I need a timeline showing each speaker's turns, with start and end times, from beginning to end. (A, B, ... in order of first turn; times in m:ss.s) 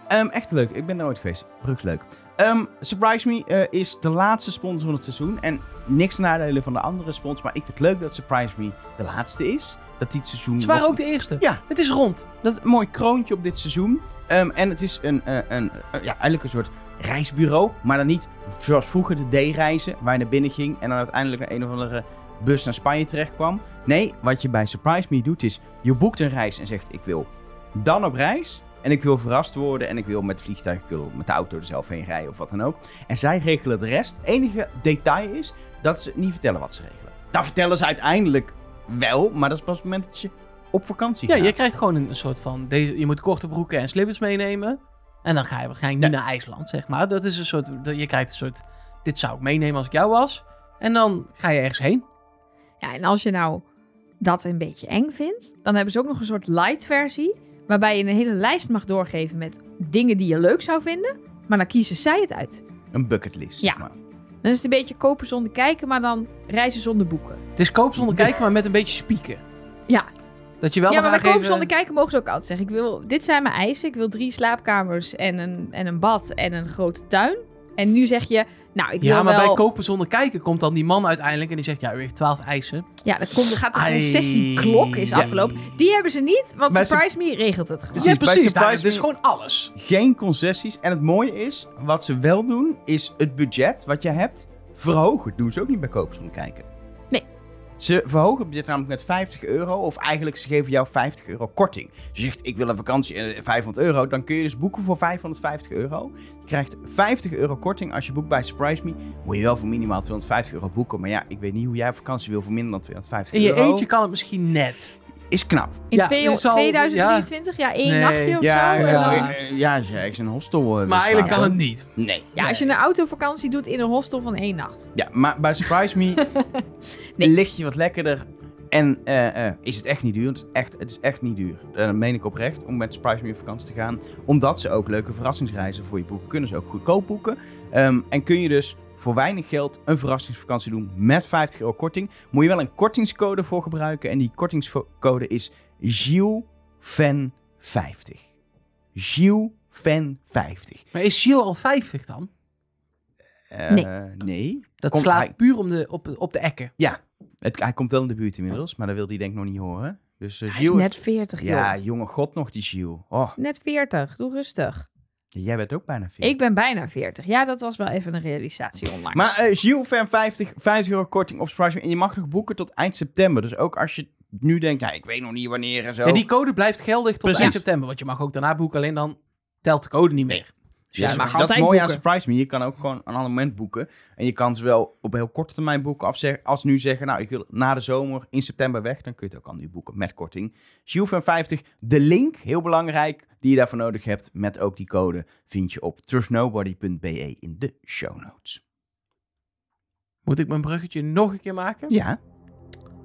0:00.1-0:11.6 A
0:10.6-0:12.3 B
0:12.4-0:41.6 A
0:41.3-0:52.0 B
0:52.8-0:53.6 C
0:54.2-1:02.6 C
1:02.9-1:03.9 A
1:04.4-1:07.4 C
1:07.6-1:09.4 B
1:08.0-1:08.3 A
1:10.6-1:11.7 B
1:10.9-1:19.6 C
1:19.0-1:22.9 B
1:23.0-1:28.1 C
1:23.7-1:25.7 B
1:25.1-1:25.5 A
1:26.7-1:27.0 A
1:27.9-1:29.1 A
1:27.9-1:29.7 B
1:29.7-1:36.7 A
1:37.8-1:53.9 A
1:53.3-1:55.0 B
1:55.3-1:55.8 A
1:55.9-1:59.3 C
1:55.9-1:57.3 B
1:57.8-1:59.4 B
1:58.4-2:02.5 A
2:00.8-2:01.9 B
2:02.4-2:04.9 C
2:04.9-2:06.2 A
2:06.2-2:07.3 C
2:07.2-2:28.2 A
2:28.9-2:30.8 A
2:30.9-2:32.3 B
2:33.5-2:35.3 A
2:34.8-2:36.7 B
2:36.8-2:43.4 A
2:40.5-2:41.8 C
2:43.4-2:44.8 C
2:45.3-2:46.3 A
2:46.2-2:49.4 C
2:49.1-2:56.3 A
2:56.0-3:01.4 B
2:57.2-2:57.6 A
3:01.0-3:18.6 A
3:01.0-3:02.0 C
3:20.2-3:21.9 B
3:21.9-3:22.2 A